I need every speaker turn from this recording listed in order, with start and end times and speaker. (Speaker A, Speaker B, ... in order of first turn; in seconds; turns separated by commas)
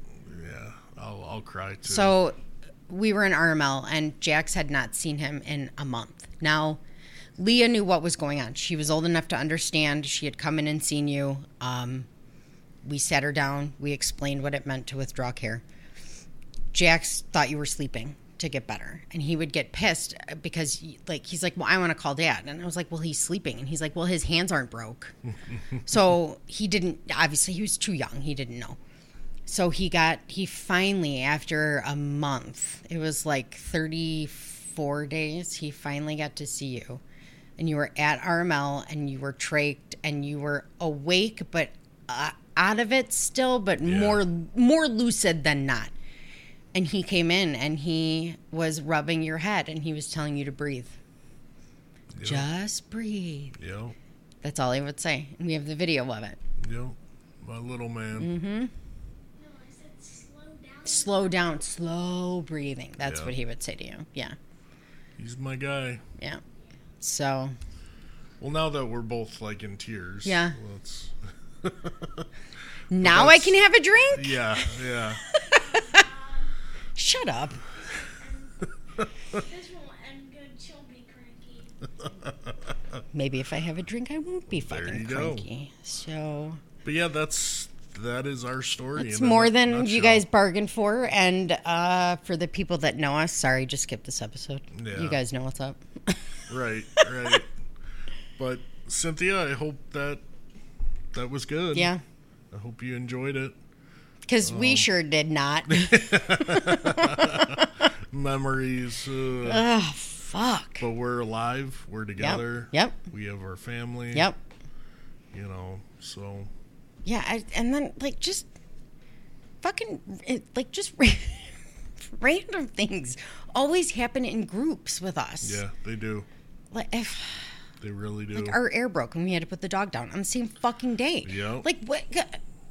Speaker A: 0.1-2.1, Speaker B: 1.9-2.4, Speaker B: 2.9-6.8, Speaker B: 7.4-12.1, Speaker B: 12.8-15.6, Speaker B: 16.7-25.1, Speaker B: 25.8-28.8, Speaker B: 29.5-37.0, Speaker B: 37.6-45.9, Speaker A: 43.8-44.2, Speaker B: 46.7-51.0, Speaker A: 52.1-52.5, Speaker B: 52.2-53.5, Speaker A: 53.6-53.9, Speaker B: 54.4-56.4, Speaker A: 56.6-58.3, Speaker B: 58.2-58.7, Speaker C: 59.4-61.5, Speaker B: 60.8-64.3, Speaker A: 63.0-63.3, Speaker A: 65.2-66.0, Speaker B: 67.0-67.5, Speaker A: 68.4-72.3, Speaker B: 70.2-70.6, Speaker B: 72.9-76.0, Speaker A: 73.0-73.6, Speaker A: 74.1-75.2, Speaker C: 75.3-76.5, Speaker B: 77.0-77.6, Speaker C: 77.7-82.1, Speaker A: 79.0-79.4, Speaker A: 82.0-83.0, Speaker B: 83.1-86.6, Speaker A: 84.5-85.5, Speaker A: 86.8-90.2, Speaker B: 89.0-96.4, Speaker A: 94.7-95.2, Speaker A: 96.5-97.5, Speaker B: 96.9-97.4, Speaker A: 98.4-100.2, Speaker A: 101.1-101.9, Speaker B: 101.7-102.0, Speaker A: 102.5-103.6, Speaker B: 104.3-107.9, Speaker A: 104.4-104.9, Speaker A: 105.7-109.7, Speaker B: 109.4-110.8, Speaker A: 110.8-114.3, Speaker B: 112.2-113.0, Speaker B: 114.1-114.4, Speaker A: 115.3-116.5, Speaker B: 117.0-118.5, Speaker B: 119.6-125.6, Speaker A: 125.4-126.3, Speaker B: 126.7-127.5, Speaker A: 127.8-128.6, Speaker B: 128.3-132.4, Speaker A: 131.2-131.7